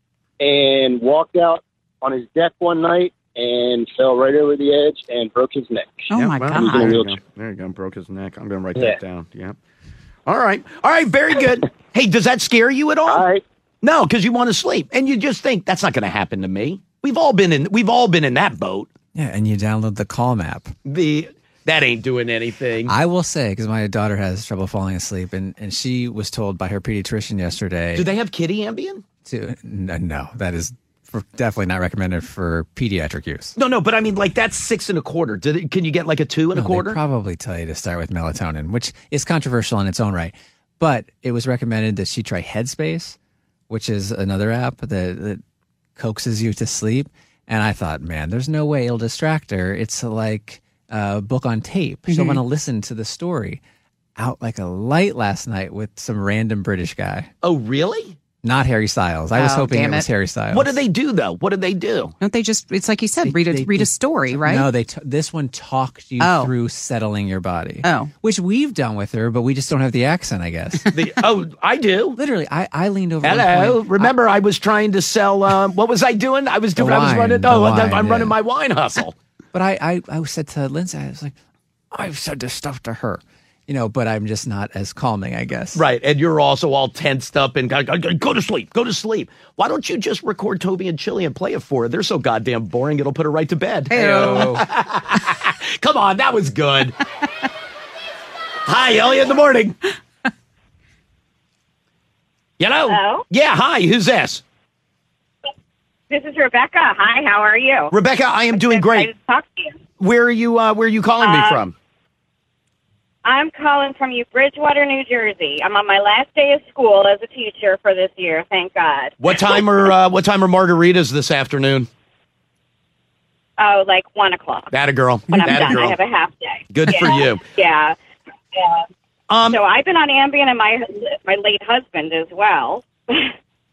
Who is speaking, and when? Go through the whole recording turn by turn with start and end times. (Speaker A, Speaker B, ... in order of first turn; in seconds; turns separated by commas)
Speaker A: 0.4-7.2, Speaker B: 6.1-7.0, Speaker C: 6.2-9.6, Speaker C: 10.3-13.2, Speaker A: 13.1-13.4, Speaker C: 13.8-18.9, Speaker D: 19.1-20.7, Speaker C: 20.9-22.9, Speaker D: 22.9-28.1, Speaker C: 27.9-29.0, Speaker D: 29.2-33.6, Speaker C: 33.6-37.0, Speaker D: 36.5-43.2, Speaker D: 43.7-45.4, Speaker D: 46.0-53.6, Speaker B: 52.1-52.4, Speaker D: 54.2-57.3, Speaker C: 57.4-58.2, Speaker D: 58.4-60.8, Speaker B: 59.4-60.1, Speaker C: 60.5-62.1, Speaker B: 62.2-64.7, Speaker D: 63.2-71.0, Speaker B: 66.2-66.5, Speaker B: 67.8-68.1, Speaker C: 70.9-72.2, Speaker D: 72.2-74.1, Speaker C: 73.2-79.2, Speaker D: 76.8-78.3, Speaker D: 79.5-81.3, Speaker D: 81.9-85.8, Speaker C: 85.8-97.0, Speaker B: 93.9-94.5, Speaker D: 93.9-94.6, Speaker C: 98.7-99.8, Speaker C: 102.6-104.4, Speaker E: 102.9-103.2, Speaker E: 106.1-107.9, Speaker C: 107.9-109.1, Speaker E: 108.5-109.8, Speaker C: 110.0-111.7, Speaker E: 111.2-111.6, Speaker E: 113.2-119.2, Speaker C: 119.2-121.9, Speaker E: 123.6-124.7, Speaker C: 124.7-126.0, Speaker E: 125.3-128.0, Speaker C: 126.7-127.4, Speaker E: 128.5-128.8, Speaker C: 129.3-129.6, Speaker E: 129.5-133.3